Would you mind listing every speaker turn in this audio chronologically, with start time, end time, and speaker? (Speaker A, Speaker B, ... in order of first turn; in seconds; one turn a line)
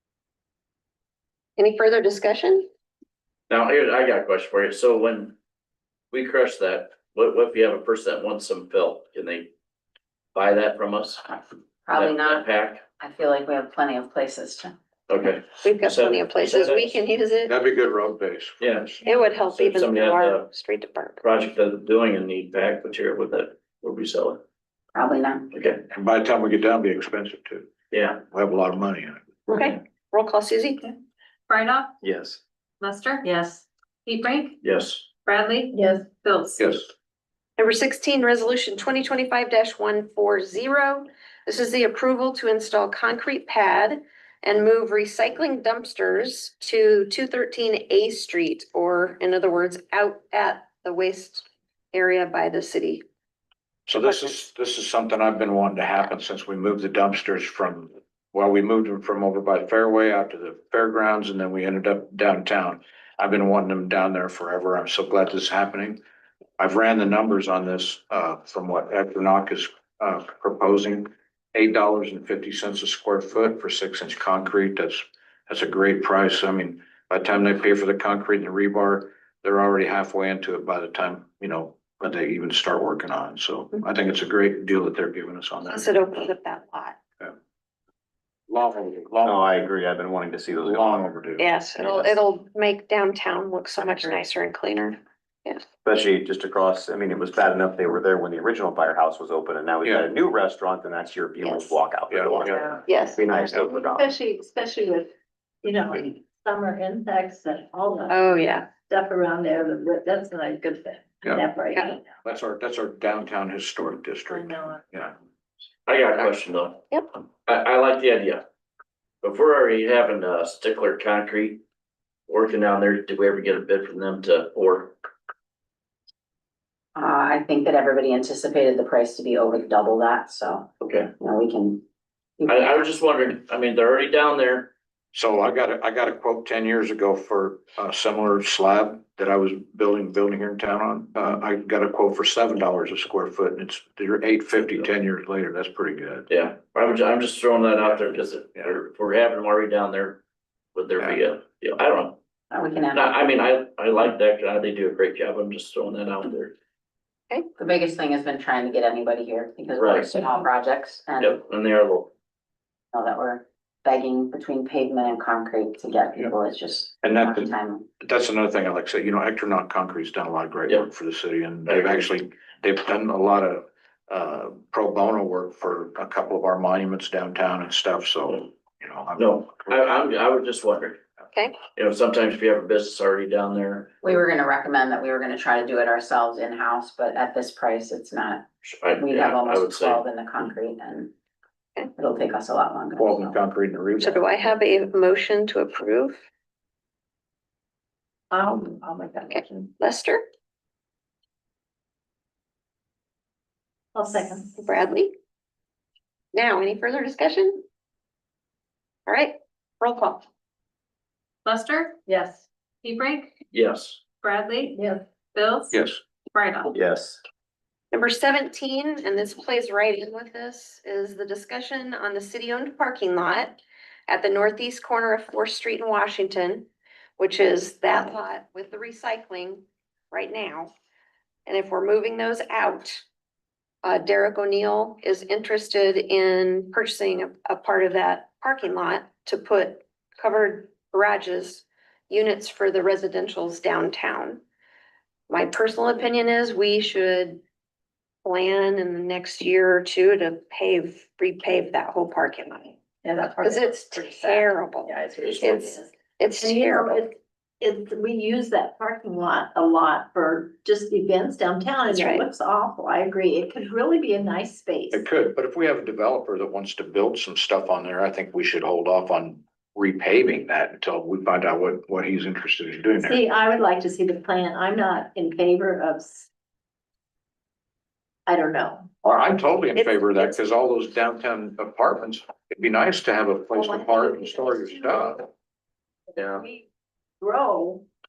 Speaker A: 1.6-2.7
Speaker B: 3.5-5.3
Speaker B: 6.1-9.5
Speaker B: 10.3-11.3
Speaker C: 11.8-12.4
Speaker B: 11.9-12.8
Speaker C: 13.0-14.7
Speaker B: 15.1-17.0
Speaker A: 15.6-17.5
Speaker D: 17.4-18.6
Speaker B: 18.6-20.5
Speaker A: 19.1-21.2
Speaker B: 21.2-24.4
Speaker C: 24.9-25.5
Speaker B: 25.5-25.8
Speaker D: 25.9-27.7
Speaker B: 27.9-28.2
Speaker D: 28.3-29.2
Speaker A: 29.6-30.9
Speaker E: 31.5-31.9
Speaker F: 32.0-32.4
Speaker E: 32.8-34.6
Speaker B: 34.6-35.0
Speaker E: 35.2-36.6
Speaker G: 35.7-36.0
Speaker D: 36.6-36.9
Speaker A: 37.6-53.0
Speaker D: 53.9-66.0
Speaker D: 66.6-86.0
Speaker A: 85.7-87.0
Speaker D: 88.5-89.4
Speaker F: 89.2-91.2
Speaker D: 90.6-91.5
Speaker A: 91.4-95.6
Speaker F: 91.8-92.2
Speaker F: 95.8-104.1
Speaker D: 102.1-102.7
Speaker G: 102.5-102.8
Speaker A: 102.9-103.2
Speaker G: 103.3-105.1
Speaker G: 105.6-112.0
Speaker A: 108.1-108.7
Speaker D: 112.2-115.1
Speaker G: 114.3-114.8
Speaker B: 115.8-116.8
Speaker B: 117.5-118.4
Speaker B: 119.2-121.6
Speaker B: 122.3-125.0
Speaker C: 126.9-131.8
Speaker B: 130.8-131.1
Speaker C: 132.4-132.8
Speaker B: 132.4-134.7
Speaker D: 135.1-146.3
Speaker B: 146.3-150.2
Speaker B: 150.7-152.2
Speaker C: 152.5-153.2
Speaker B: 152.9-156.5
Speaker C: 157.6-161.4
Speaker B: 159.8-160.3
Speaker B: 161.2-162.1
Speaker C: 162.9-167.8
Speaker D: 167.0-179.5
Speaker B: 171.7-172.1
Speaker B: 179.1-181.0
Speaker B: 181.7-183.9
Speaker C: 184.0-188.4
Speaker B: 188.6-190.0
Speaker C: 189.0-191.1
Speaker C: 191.9-193.3
Speaker D: 192.9-194.3
Speaker A: 194.0-196.2
Speaker G: 198.3-199.7
Speaker A: 199.3-200.2
Speaker G: 203.9-204.6
Speaker A: 204.6-205.1
Speaker A: 206.3-207.6
Speaker A: 209.1-210.2
Speaker E: 211.4-212.0
Speaker G: 212.1-212.4
Speaker E: 212.8-213.3
Speaker B: 213.5-214.0
Speaker E: 214.2-215.8
Speaker G: 214.7-215.0
Speaker D: 215.7-216.0
Speaker E: 216.3-216.7
Speaker F: 216.7-217.2
Speaker A: 217.9-226.7
Speaker A: 227.2-230.7
Speaker A: 231.4-233.0
Speaker A: 233.8-244.4
Speaker A: 245.3-247.4
Speaker A: 248.2-252.8
Speaker G: 253.0-265.0
Speaker A: 253.4-257.0
Speaker A: 261.9-262.2
Speaker D: 264.9-273.2
Speaker G: 273.0-276.3
Speaker G: 278.2-278.9
Speaker D: 279.0-285.3
Speaker G: 283.5-285.2
Speaker G: 286.1-286.6
Speaker B: 286.2-286.4
Speaker G: 287.2-287.8